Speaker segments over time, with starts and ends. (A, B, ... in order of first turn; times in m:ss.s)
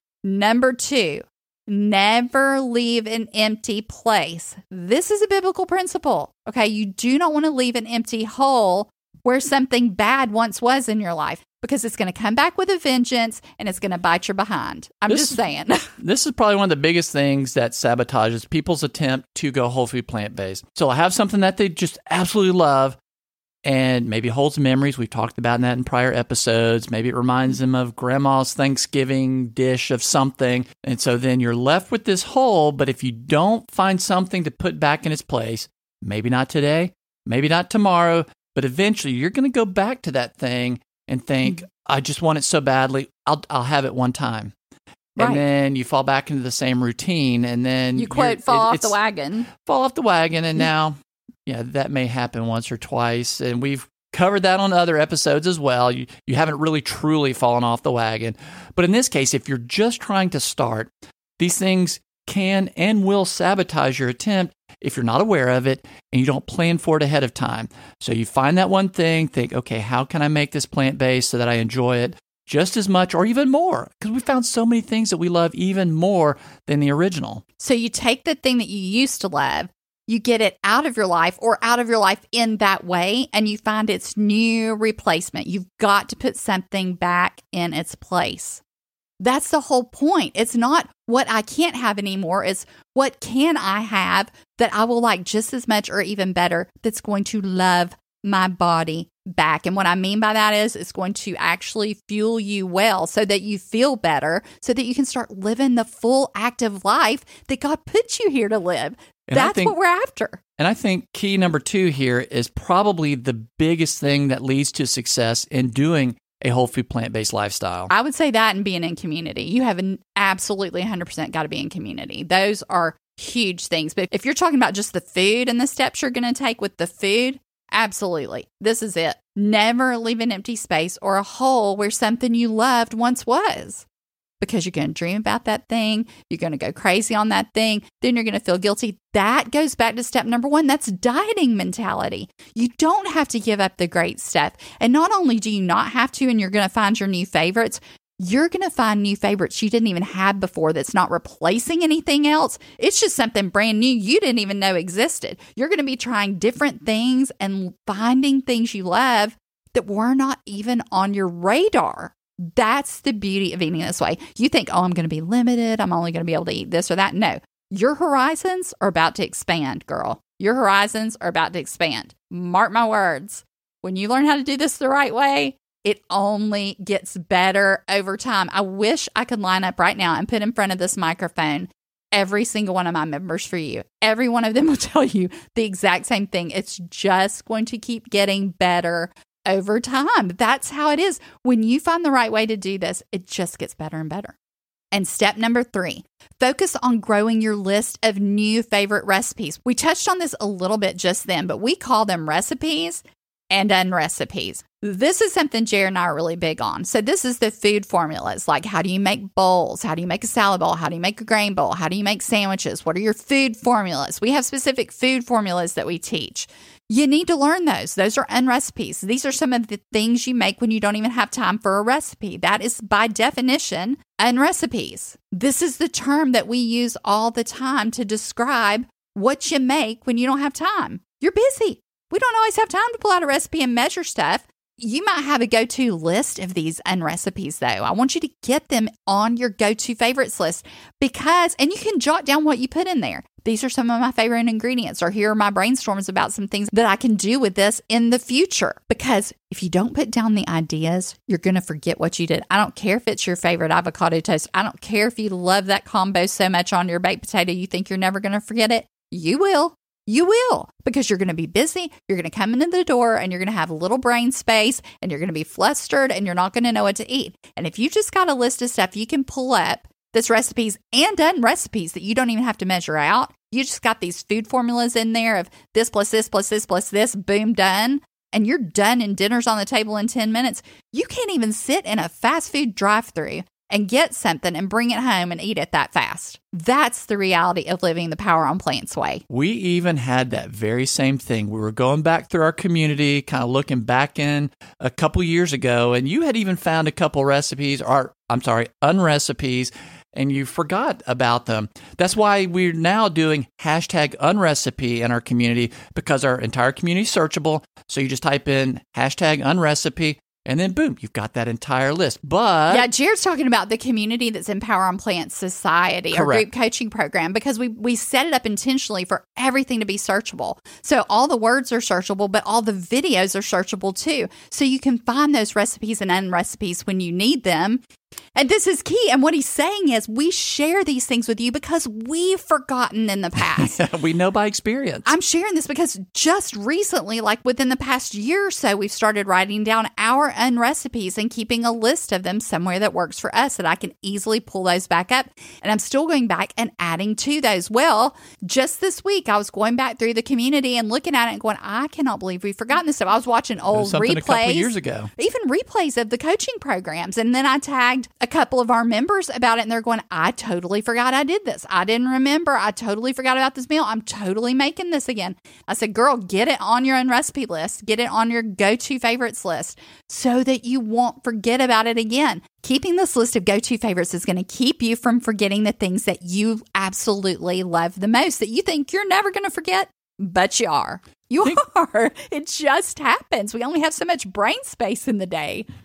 0:00.2-0:15.9 A
0:15.1-0:15.4 B
0:15.9-0:23.0 B
0:23.6-0:44.5 B
0:45.2-0:49.0 B
0:48.0-0:49.5 A
0:49.5-0:51.0 B
0:51.5-1:17.4 B
1:17.6-1:28.6 A
1:29.2-1:50.4 A
1:49.3-1:49.8 B
1:50.6-1:57.9 B
1:57.9-2:13.8 A
2:14.4-3:14.4 A
3:14.9-4:49.2 A
4:49.3-5:12.9 B
5:12.7-5:27.8 A
5:16.1-5:16.5 B
5:28.4-5:33.8 A
5:33.4-5:35.1 B
5:35.0-6:25.7 A
5:53.7-5:55.1 B